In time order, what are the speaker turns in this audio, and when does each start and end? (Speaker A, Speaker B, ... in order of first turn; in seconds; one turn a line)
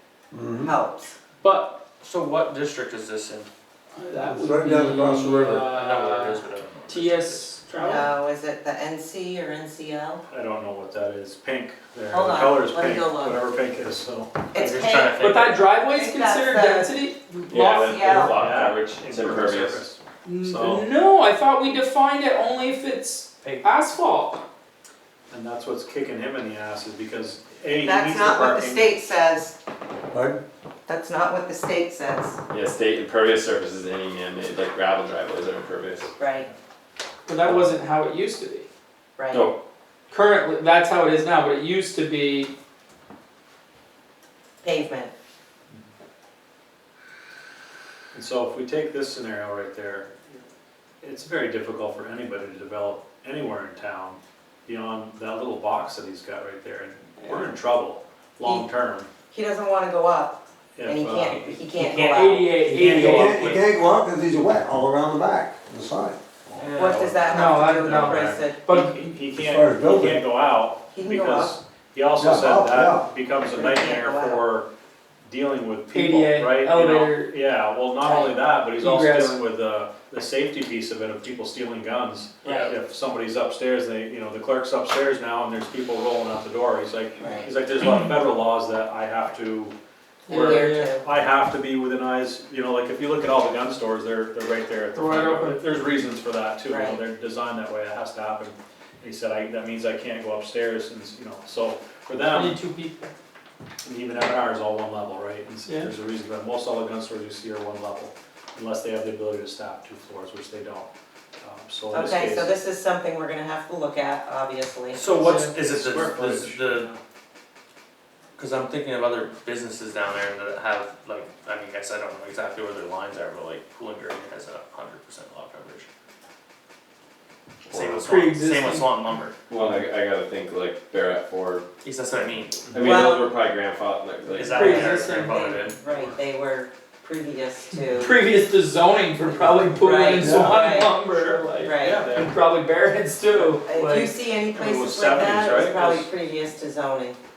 Speaker A: 0.3-0.7
Speaker B: 0.6-1.1
Speaker C: 1.4-1.8
Speaker D: 2.0-3.5
Speaker C: 3.9-8.1
Speaker A: 4.2-5.6
Speaker D: 5.5-7.5
Speaker B: 7.8-10.2
Speaker E: 10.3-14.6
Speaker B: 12.1-13.4
Speaker B: 14.5-15.2
Speaker D: 14.6-15.6
Speaker C: 15.2-18.3
Speaker B: 15.9-17.0
Speaker F: 17.5-19.8
Speaker B: 17.9-18.3
Speaker E: 18.1-20.9
Speaker C: 20.2-24.4
Speaker D: 23.4-23.7
Speaker E: 25.3-28.9
Speaker B: 27.8-29.6
Speaker A: 30.1-30.4
Speaker B: 30.9-32.4
Speaker F: 32.5-36.1
Speaker B: 36.2-36.5
Speaker C: 37.3-38.7
Speaker B: 39.2-39.5
Speaker F: 39.3-39.6
Speaker C: 40.1-42.5
Speaker B: 44.6-45.1
Speaker E: 48.1-50.4
Speaker E: 51.0-59.1
Speaker B: 59.3-62.6
Speaker E: 60.8-61.7
Speaker C: 61.8-63.8
Speaker A: 62.6-66.2
Speaker E: 62.7-63.5
Speaker E: 66.5-74.7
Speaker D: 66.6-67.4
Speaker B: 66.8-68.7
Speaker C: 67.3-69.1
Speaker A: 69.3-70.2
Speaker B: 70.9-71.6
Speaker A: 72.2-73.1
Speaker B: 73.4-74.5
Speaker E: 75.2-89.7
Speaker C: 75.9-77.3
Speaker B: 78.0-78.4
Speaker C: 78.8-79.4
Speaker B: 87.2-87.5
Speaker C: 90.3-90.9
Speaker B: 90.3-91.0
Speaker E: 90.3-102.6
Speaker C: 94.9-95.6
Speaker B: 96.7-97.0
Speaker C: 102.3-103.1
Speaker E: 103.8-110.9
Speaker C: 105.7-105.9
Speaker E: 111.4-112.5
Speaker B: 111.9-115.0
Speaker D: 114.9-116.9
Speaker E: 115.0-116.9
Speaker C: 115.2-115.5
Speaker D: 118.4-125.9
Speaker D: 127.7-129.4
Speaker F: 127.7-128.0
Speaker C: 128.0-129.0
Speaker F: 129.5-131.6
Speaker D: 131.8-132.6
Speaker E: 132.7-133.0
Speaker F: 132.7-135.2
Speaker B: 132.8-133.3
Speaker D: 134.3-135.8
Speaker C: 134.4-135.7
Speaker B: 135.8-138.2
Speaker E: 135.8-136.2
Speaker C: 137.9-144.1
Speaker B: 139.3-141.0
Speaker A: 140.2-140.6
Speaker E: 141.0-142.3
Speaker B: 141.6-142.0
Speaker B: 143.6-147.2
Speaker E: 144.5-146.1